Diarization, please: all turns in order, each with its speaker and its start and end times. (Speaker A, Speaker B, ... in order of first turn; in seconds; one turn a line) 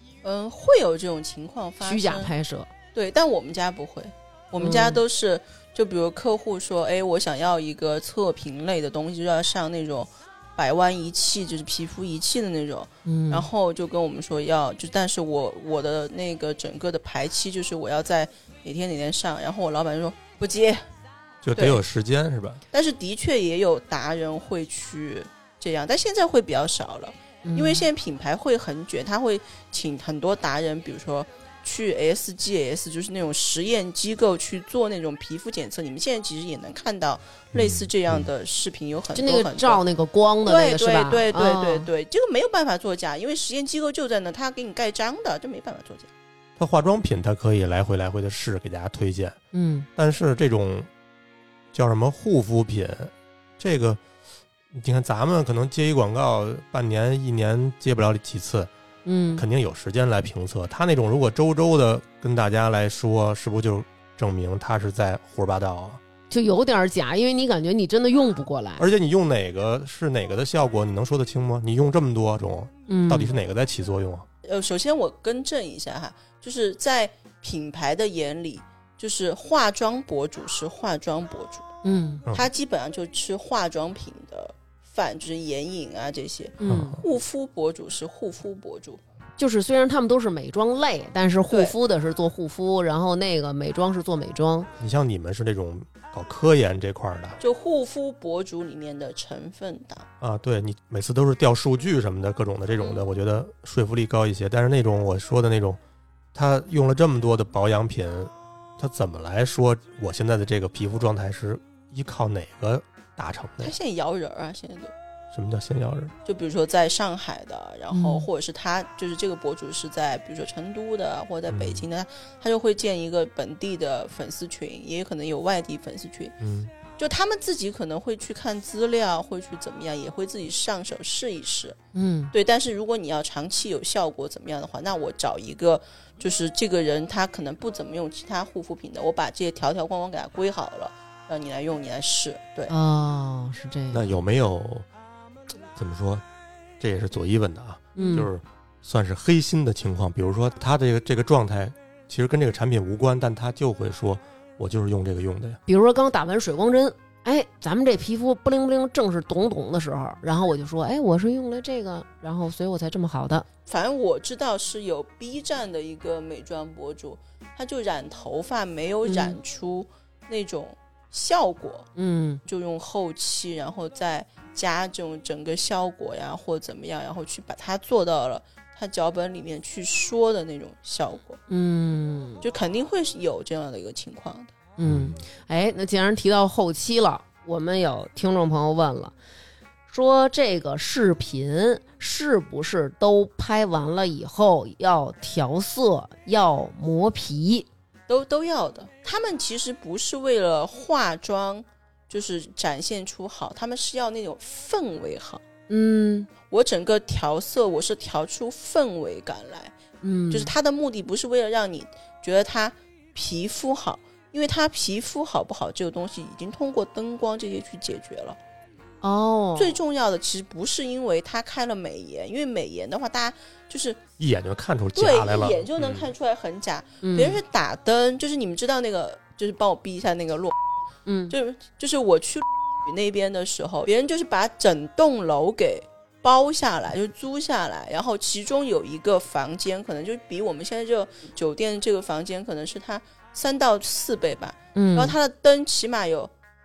Speaker A: 0.2-2.3
Speaker B: 1.8-2.7
Speaker A: 2.9-20.8
Speaker B: 4.6-5.0
Speaker B: 13.1-13.5
Speaker C: 21.4-22.6
Speaker A: 21.5-21.8
Speaker A: 22.7-39.8
Speaker B: 27.4-27.9
Speaker C: 37.5-38.3
Speaker B: 39.1-41.9
Speaker A: 40.5-46.1
Speaker C: 46.6-49.4
Speaker B: 49.5-49.9
Speaker C: 50.0-50.9
Speaker C: 51.7-54.0
Speaker C: 54.7-58.7
Speaker B: 59.0-59.4
Speaker C: 59.4-66.0
Speaker B: 66.3-68.9
Speaker C: 68.8-74.2
Speaker B: 72.9-73.3
Speaker A: 74.4-81.7
Speaker B: 81.8-82.2
Speaker A: 82.3-89.0
Speaker B: 86.6-87.0
Speaker C: 86.7-87.0
Speaker B: 89.4-94.7
Speaker A: 91.5-91.7
Speaker C: 94.8-97.4
Speaker A: 97.4-100.1
Speaker C: 100.2-105.8
Speaker C: 106.3-113.7
Speaker A: 113.6-114.9
Speaker C: 115.3-116.1
Speaker A: 116.2-126.3
Speaker B: 117.9-118.3
Speaker C: 121.5-121.8
Speaker C: 126.4-126.7
Speaker A: 126.9-131.8
Speaker B: 131.9-132.3
Speaker A: 132.3-142.7
Speaker B: 142.7-144.1
Speaker C: 143.9-144.9
Speaker C: 145.7-146.2
Speaker C: 146.8-155.6
Speaker B: 147.9-148.3
Speaker B: 155.7-163.4
Speaker A: 163.7-171.9
Speaker B: 169.0-169.4
Speaker B: 172.0-172.4
Speaker A: 172.5-181.4
Speaker B: 181.5-182.4
Speaker A: 182.4-184.5
Speaker B: 184.8-189.1
Speaker C: 184.8-185.2
Speaker B: 189.9-197.7
Speaker A: 198.1-205.4
Speaker B: 205.7-206.3
Speaker A: 206.5-209.7
Speaker B: 210.0-210.5
Speaker A: 210.3-218.4
Speaker B: 219.0-219.8
Speaker A: 219.6-224.0
Speaker C: 224.2-226.1
Speaker A: 224.9-230.5
Speaker B: 227.0-227.4
Speaker B: 231.1-231.3
Speaker A: 231.3-246.3
Speaker B: 244.7-245.2